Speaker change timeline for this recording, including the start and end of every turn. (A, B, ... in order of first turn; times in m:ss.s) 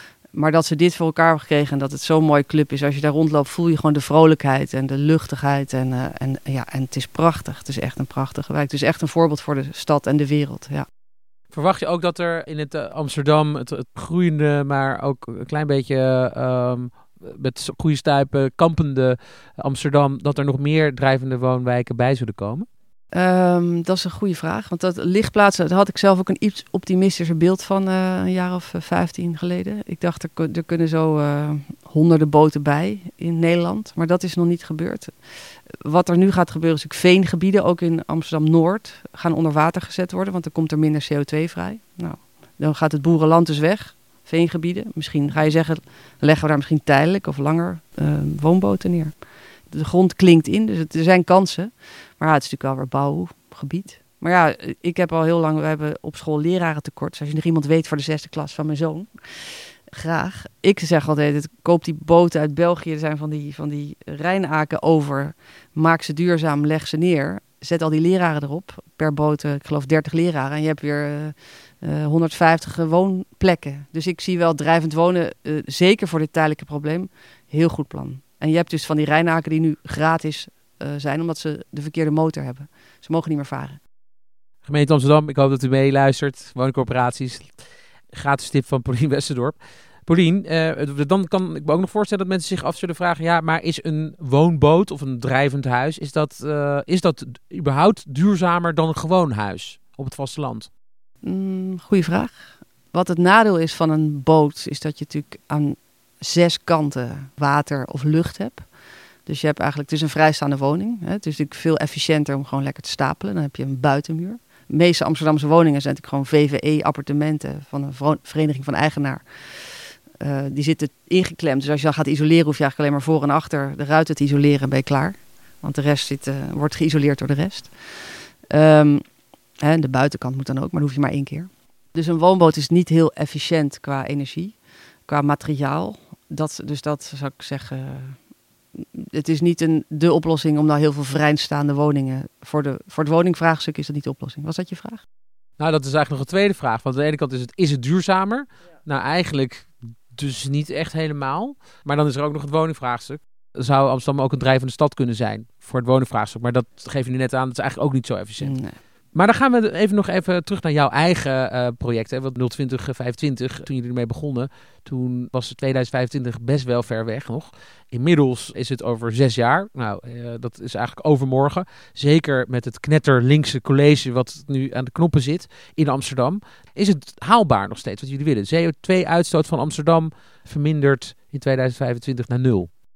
0:00.3-0:10.8 A
0:11.5-0:22.7 B
0:23.1-0:35.1 A
0:35.8-0:49.2 A
0:49.7-1:23.8 A
1:24.6-1:40.7 B
1:41.2-1:48.6 A
1:49.2-2:09.0 A
2:09.6-2:18.2 A
2:18.8-2:25.0 A
2:25.6-2:38.6 B
2:38.4-2:38.8 A
2:39.1-3:02.7 B